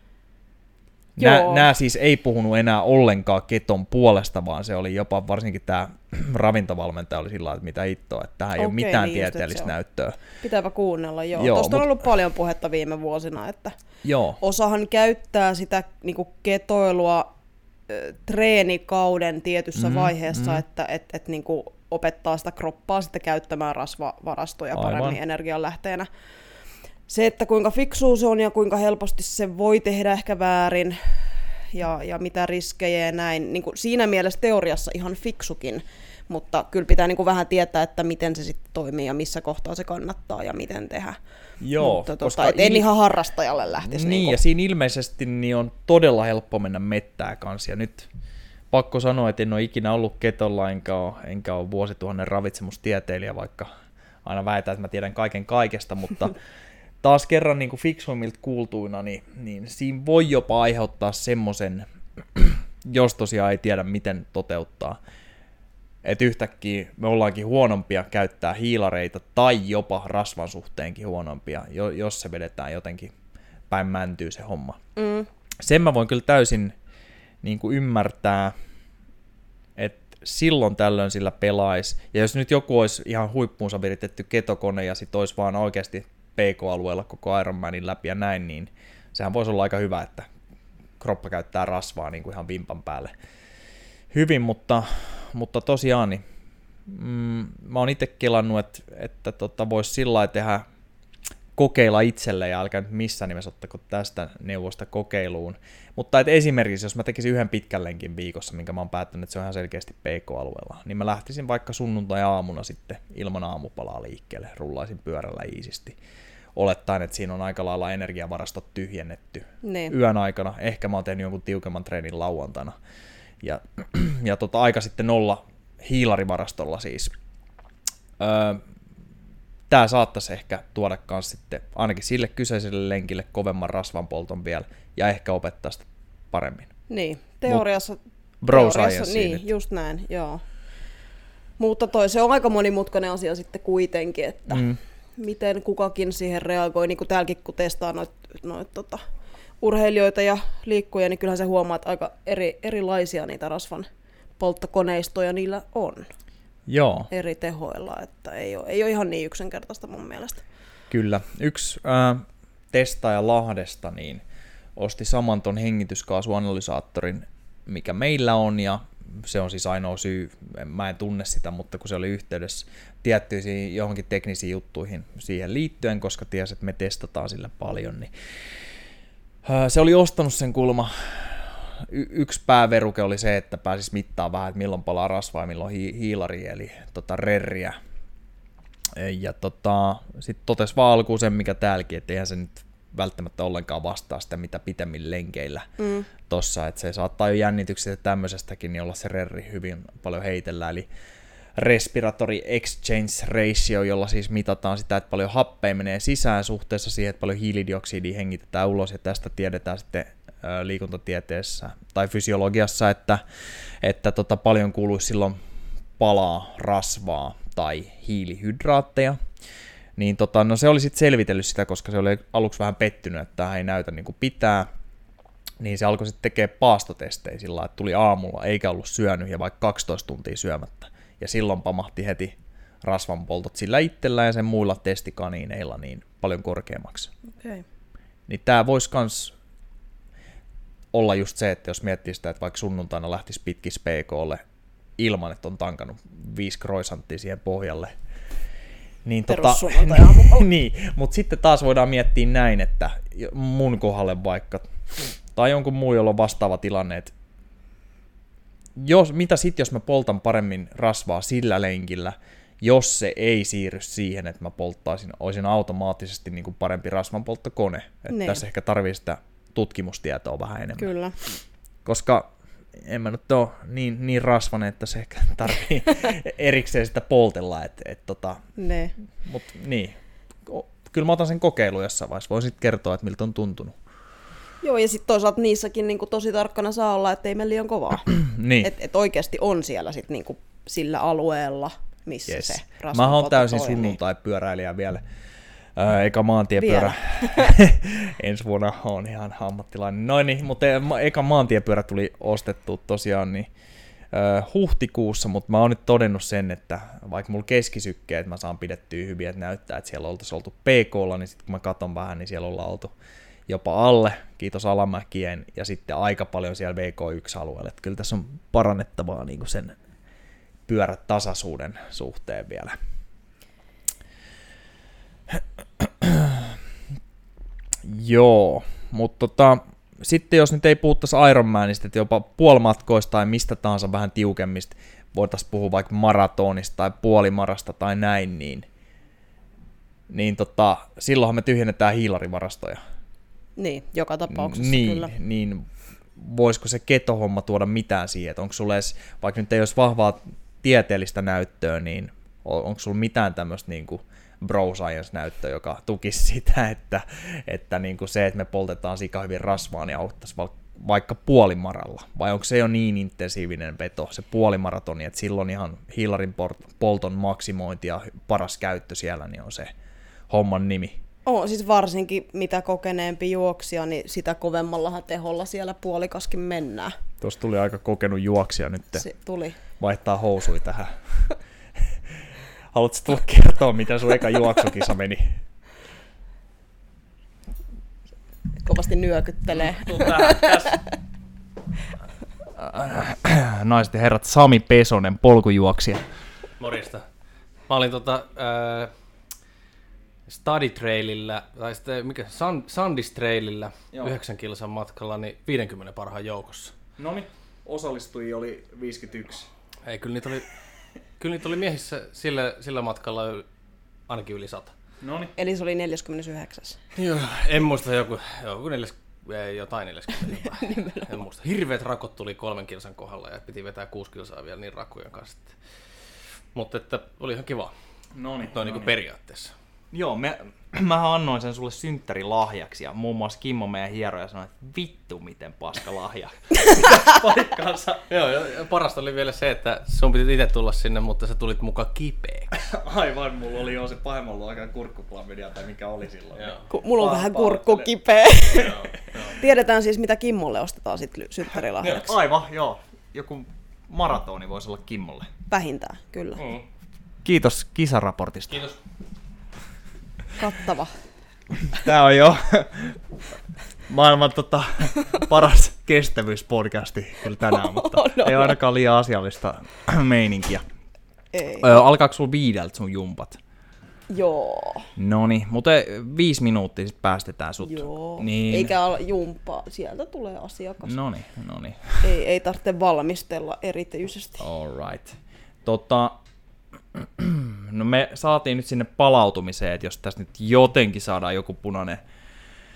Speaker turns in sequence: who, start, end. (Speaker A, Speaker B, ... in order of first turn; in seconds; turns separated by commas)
Speaker A: 1.2-1.7, Speaker B: 1.2-10.2, Speaker A: 8.6-9.7, Speaker A: 10.4-13.8, Speaker B: 11.3-11.8, Speaker B: 14.0-14.4, Speaker A: 14.4-17.3, Speaker A: 17.9-26.1, Speaker B: 19.7-20.6, Speaker B: 24.7-25.2, Speaker A: 27.1-41.2, Speaker B: 41.6-42.9, Speaker A: 41.8-44.4, Speaker B: 43.9-48.1, Speaker B: 48.7-53.7, Speaker B: 54.2-56.4, Speaker B: 57.0-65.0, Speaker B: 66.0-73.1, Speaker B: 73.7-74.8, Speaker A: 75.0-75.3, Speaker B: 75.6-76.8, Speaker B: 77.4-78.5, Speaker B: 79.8-90.3, Speaker B: 91.0-93.1, Speaker B: 94.1-96.2, Speaker B: 96.9-100.6, Speaker B: 101.5-116.0, Speaker B: 116.5-122.8, Speaker A: 119.6-119.9, Speaker B: 123.4-127.1, Speaker B: 128.2-128.6, Speaker B: 129.7-136.7, Speaker A: 136.9-140.4, Speaker B: 138.4-139.4, Speaker A: 141.6-149.0, Speaker B: 144.5-144.8, Speaker A: 149.6-153.9, Speaker A: 154.4-156.1, Speaker B: 156.7-157.1, Speaker A: 157.1-160.4, Speaker B: 160.9-164.2, Speaker B: 164.8-178.1, Speaker B: 179.4-187.8, Speaker B: 188.9-195.7, Speaker A: 195.8-196.1, Speaker B: 196.2-200.9, Speaker B: 201.6-213.2, Speaker B: 213.8-215.4, Speaker B: 216.0-219.2, Speaker B: 219.9-224.7, Speaker B: 225.6-237.1, Speaker A: 237.4-237.6, Speaker B: 238.3-239.3, Speaker B: 240.9-244.4, Speaker B: 245.0-247.9, Speaker B: 249.0-257.1, Speaker A: 249.3-250.5, Speaker B: 258.8-271.3, Speaker A: 268.1-268.4, Speaker A: 270.8-271.2, Speaker B: 271.8-278.4, Speaker A: 278.6-278.9, Speaker B: 279.2-283.8, Speaker A: 284.6-288.1, Speaker B: 288.1-288.7, Speaker A: 288.6-294.0, Speaker B: 292.3-295.0, Speaker B: 295.8-303.5, Speaker A: 296.6-297.5, Speaker B: 304.1-312.9, Speaker B: 313.5-319.8, Speaker B: 320.7-322.7, Speaker B: 325.3-326.6, Speaker B: 327.8-338.7, Speaker B: 340.1-342.8, Speaker A: 343.6-345.1, Speaker B: 344.3-369.7, Speaker B: 370.3-371.0, Speaker A: 371.2-376.9, Speaker B: 377.2-379.0, Speaker A: 378.9-379.6, Speaker B: 379.8-381.3, Speaker B: 382.7-385.4, Speaker A: 388.6-390.9, Speaker B: 389.6-390.7, Speaker B: 392.6-396.0, Speaker C: 396.6-397.1, Speaker C: 397.7-398.9, Speaker C: 400.3-406.8, Speaker B: 407.0-409.5, Speaker C: 409.8-410.5, Speaker C: 411.2-413.4, Speaker C: 414.1-414.7, Speaker B: 415.0-415.3, Speaker A: 415.4-416.8, Speaker C: 416.9-425.5, Speaker A: 420.6-421.1, Speaker C: 426.5-427.7, Speaker B: 428.1-428.9, Speaker C: 428.4-429.5, Speaker B: 429.9-438.1, Speaker C: 438.1-442.7, Speaker B: 442.6-447.9, Speaker C: 446.4-446.6, Speaker A: 446.7-452.2, Speaker C: 448.5-449.3, Speaker B: 448.6-448.9, Speaker B: 451.8-455.3, Speaker A: 455.5-456.4, Speaker C: 456.4-456.6, Speaker B: 457.2-458.6, Speaker C: 458.5-458.8, Speaker A: 460.4-461.0, Speaker B: 461.6-463.0, Speaker B: 463.9-470.6, Speaker A: 467.4-468.6, Speaker A: 471.3-471.8, Speaker B: 471.6-473.4, Speaker A: 474.1-474.9, Speaker B: 474.9-478.7, Speaker A: 477.6-480.9, Speaker B: 480.8-482.0, Speaker A: 482.0-484.4, Speaker B: 484.4-486.2, Speaker B: 486.9-492.0